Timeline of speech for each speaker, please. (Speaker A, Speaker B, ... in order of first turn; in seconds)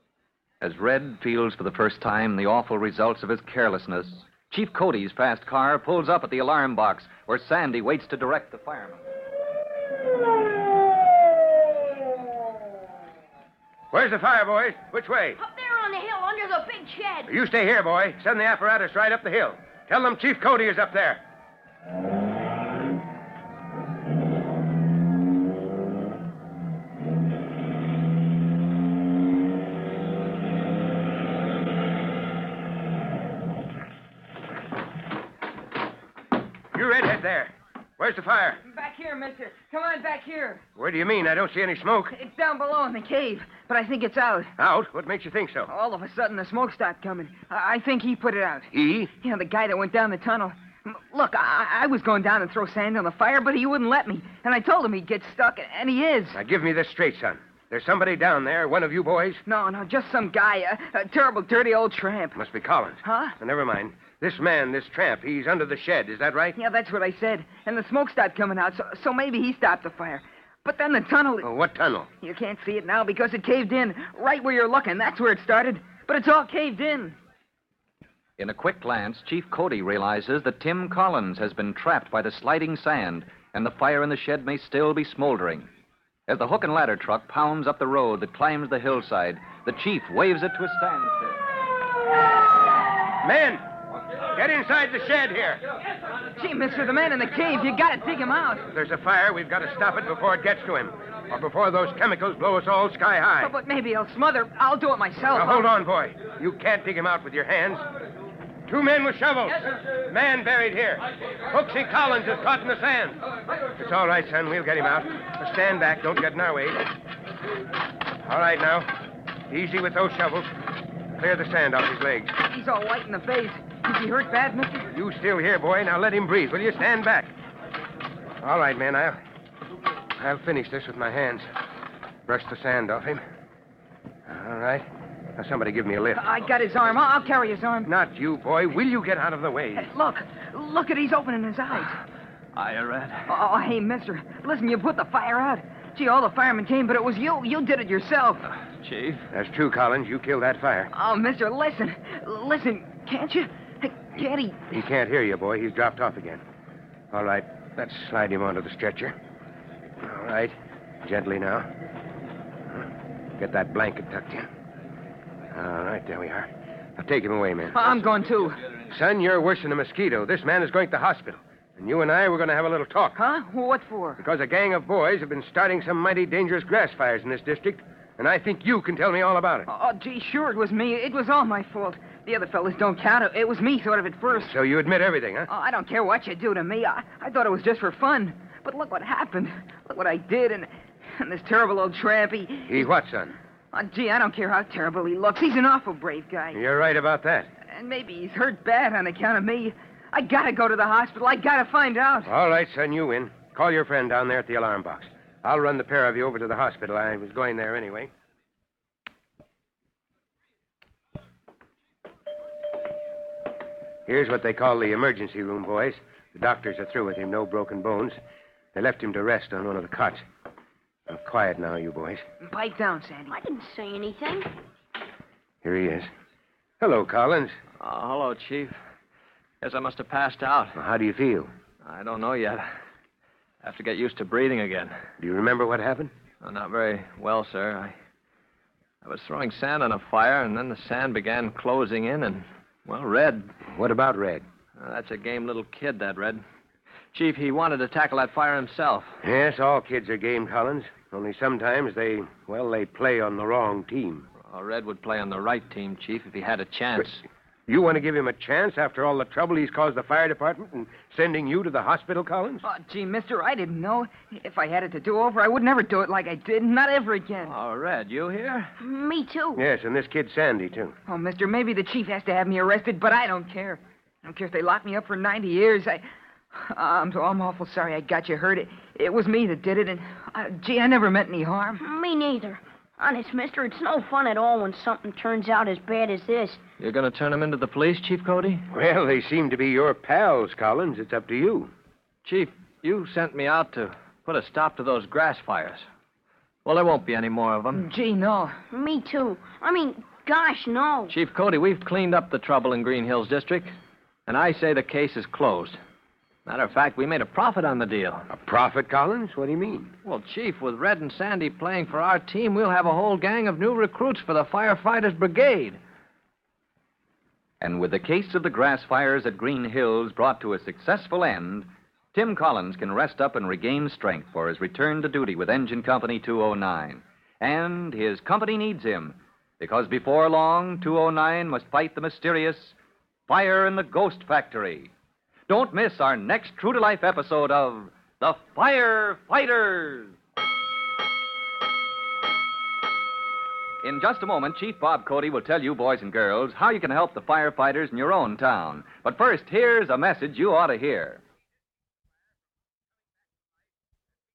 Speaker A: 0.6-9.0, 78.4-85.7, 86.3-91.4, 317.6-332.8, 333.3-334.9, 335.5-340.1, 343.8-351.2
Speaker B: 13.9-15.4, 17.3-21.2, 36.7-38.6, 40.8-42.1, 44.6-45.7, 48.7-49.1, 56.3-59.4, 62.4-66.6, 71.4-72.1, 93.2-93.6, 94.2-95.6, 98.7-103.5, 105.3-107.9, 108.7-113.2, 113.8-116.9, 118.2-118.9, 119.5-120.5, 121.2-122.3, 124.9-127.3, 128.4-129.2, 130.2-131.5, 132.3-133.2, 134.3-136.2, 137.9-139.8, 149.3-150.9, 154.7-156.4, 157.1-159.2, 160.0-161.7, 163.4-164.5, 165.5-167.9, 168.9-173.2, 174.2-179.7, 184.4-185.5, 192.7-193.4, 196.5-197.5, 202.3-208.1, 214.1-218.2, 218.8-220.2, 221.1-222.2, 225.6-226.1, 226.8-227.5, 230.8-231.5, 235.2-236.1, 243.7-244.4, 249.2-254.2, 257.7-262.6, 269.6-270.9, 288.7-291.7, 308.3-309.9
Speaker C: 15.4-17.3, 223.3-224.5, 268.8-269.6, 281.8-286.6, 298.7-301.1
Speaker D: 38.6-40.6, 42.1-44.5, 45.7-56.4, 59.5-62.4, 63.0-63.4, 66.6-71.5, 72.2-77.2, 96.3-98.7, 103.4-105.7, 122.4-124.9, 136.2-137.9, 139.8-142.0, 143.3-148.5, 150.9-154.8, 167.7-168.6, 173.2-174.2, 179.7-184.5, 185.5-192.9, 193.7-196.6, 197.7-202.3, 222.4-223.3, 262.6-267.6, 271.1-281.8, 297.7-298.6
Speaker E: 142.6-143.3, 148.6-149.2, 227.8-228.7, 229.6-230.8, 231.8-232.7, 233.6-234.9, 236.4-237.9, 239.0-243.5, 244.8-246.4, 247.1-249.1, 254.5-257.2, 267.5-268.7, 286.8-288.6, 292.2-295.8, 296.6-297.8, 301.1-303.7, 304.3-305.8, 306.5-308.3, 310.1-315.8